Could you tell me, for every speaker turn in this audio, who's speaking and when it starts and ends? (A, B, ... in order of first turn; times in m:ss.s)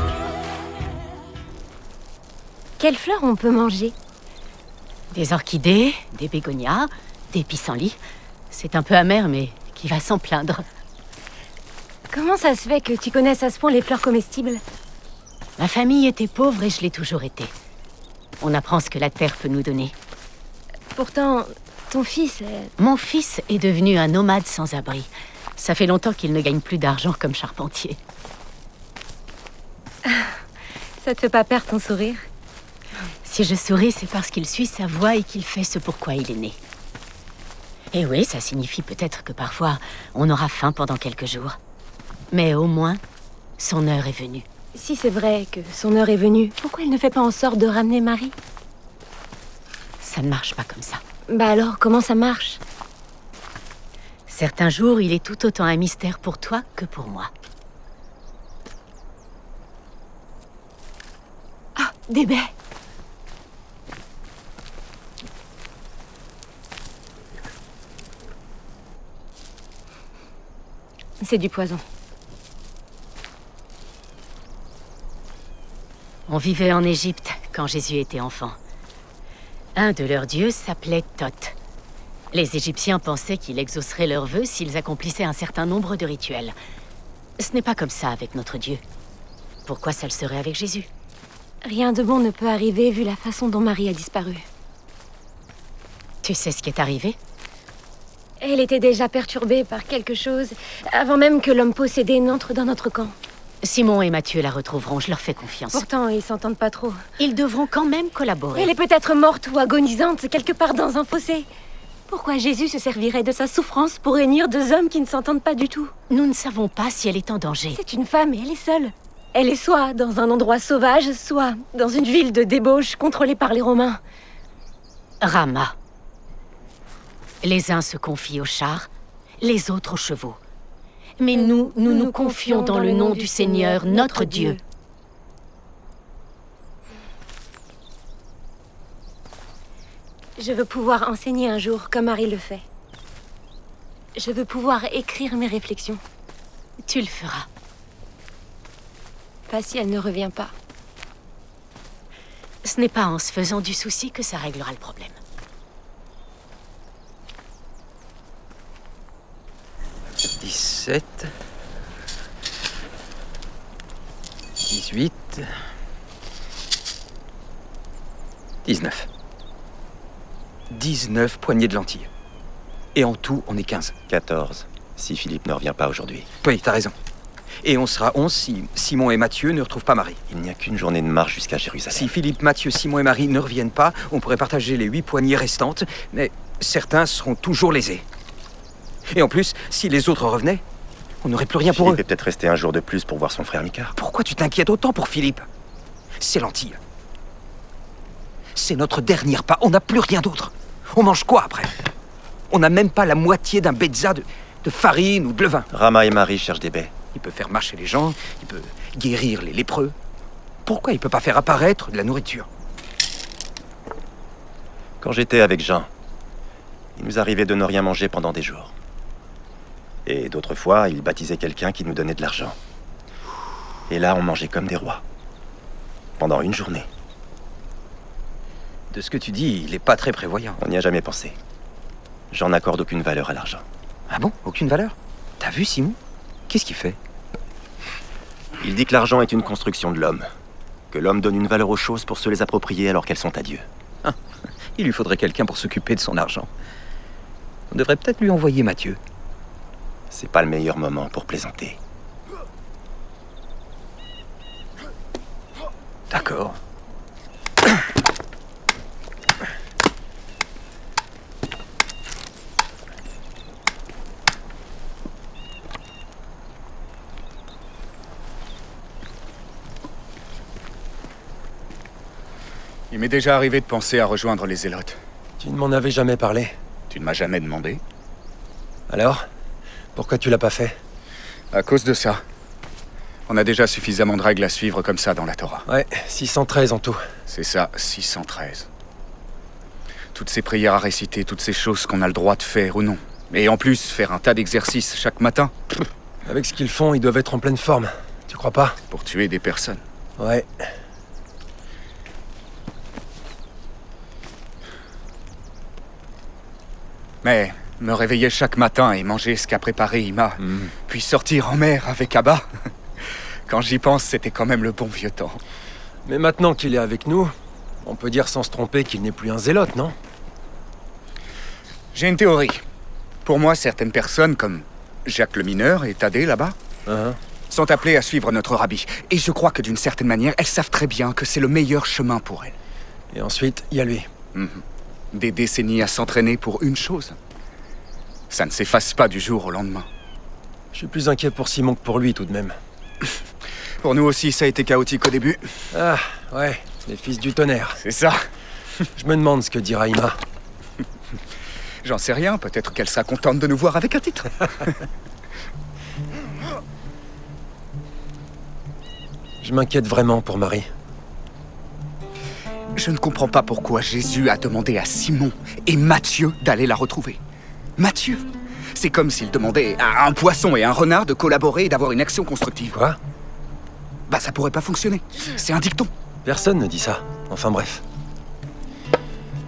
0:02.8-0:04.0 A
0:05.1-0:08.0 B
0:08.5-0:10.6 B
0:12.1-0:14.6 A
0:15.6-0:17.5 B
0:18.4-0:19.9 B
0:20.9-0:22.7 A
0:22.8-0:28.0 B
0:31.0-0:32.2 A
0:33.2-0:36.6 B
0:37.9-0:41.6 B
0:42.3-0:43.0 B
0:43.6-0:44.4 B
0:44.8-0:48.3 A
0:50.0-0:51.0 B
0:51.3-0:52.6 A
0:54.3-0:57.3 B
1:01.8-1:02.5 A
1:11.2-1:11.8 A
1:16.3-1:18.6 B
1:19.8-1:21.6 B
1:22.3-1:26.6 B
1:27.4-1:28.8 B
1:29.7-1:30.9 B
1:31.6-1:34.4 A
1:36.2-1:37.2 B
1:38.4-1:43.1 A
1:43.6-1:45.9 B
1:45.7-1:47.0 A
1:47.2-1:48.7 B
1:48.6-1:51.5 A
1:52.1-1:55.9 A
1:56.1-1:57.8 B
1:57.7-2:04.0 A
2:05.2-2:05.8 B
2:07.4-2:08.9 B
2:09.4-2:10.4 B
2:11.2-2:14.6 B
2:11.4-2:14.6 A
2:20.4-2:22.6 A
2:24.2-2:26.0 A
2:26.8-2:27.5 B
2:29.5-2:30.5 A
2:32.6-2:35.2 B
2:40.4-2:41.3 C
2:44.7-2:45.5 C
2:48.6-2:49.1 C
2:50.7-2:52.1 C
2:53.0-2:53.9 C
2:54.1-2:56.3 D
2:56.4-2:56.9 C
2:57.6-3:00.2 C
3:00.3-3:02.1 D
3:01.9-3:08.0 C
3:09.1-3:10.6 C
3:11.2-3:12.0 C
3:11.6-3:13.9 D
3:14.0-3:15.5 C
3:16.2-3:16.8 C
3:18.6-3:21.8 C
3:22.5-3:25.7 C
3:25.7-3:26.9 D
3:27.2-3:30.0 C
3:30.6-3:32.5 C
3:35.0-3:35.9 D
3:37.0-3:38.7 D
3:40.1-3:42.6 D
3:43.9-3:45.0 D
3:46.2-3:46.9 D
3:48.9-3:50.6 C
3:50.6-3:51.4 D
3:52.3-3:53.6 D
3:54.1-3:56.0 C
3:56.5-3:57.0 C
3:58.6-4:00.3 D
4:00.9-4:03.7 D
4:04.8-4:06.5 C
4:07.7-4:09.0 C
4:10.1-4:11.8 D
4:16.1-4:16.6 C
4:32.9-4:35.0 E
4:35.4-4:36.5 F
4:36.9-4:37.8 E
4:38.9-4:39.2 F
4:40.0-4:40.8 F
4:41.5-4:42.2 E
4:43.3-4:45.6 E
4:45.7-4:47.0 F
4:47.3-4:48.7 E
4:50.1-4:55.8 E
4:56.3-4:58.8 F
4:58.9-4:59.8 E
5:00.2-5:00.5 F
5:07.2-5:12.4 E
5:13.5-5:15.4 E
5:16.1-5:17.3 F
5:17.8-5:20.0 F
5:21.9-5:22.6 E
5:23.2-5:26.6 E
5:26.9-5:27.2 F
5:27.5-5:32.5 E
5:33.1-5:34.1 F
5:34.3-5:37.2 E
5:38.3-5:39.9 E
5:40.7-5:42.6 F
5:43.8-5:45.5 E
5:45.7-5:47.8 F
5:47.8-5:48.2 E
5:49.0-5:50.2 F
5:51.8-5:54.8 E
5:59.4-6:00.7 F
6:02.8-6:07.2 E
6:07.8-6:12.8 E
6:12.7-6:13.0 F
6:14.1-6:15.9 E
6:16.2-6:17.8 F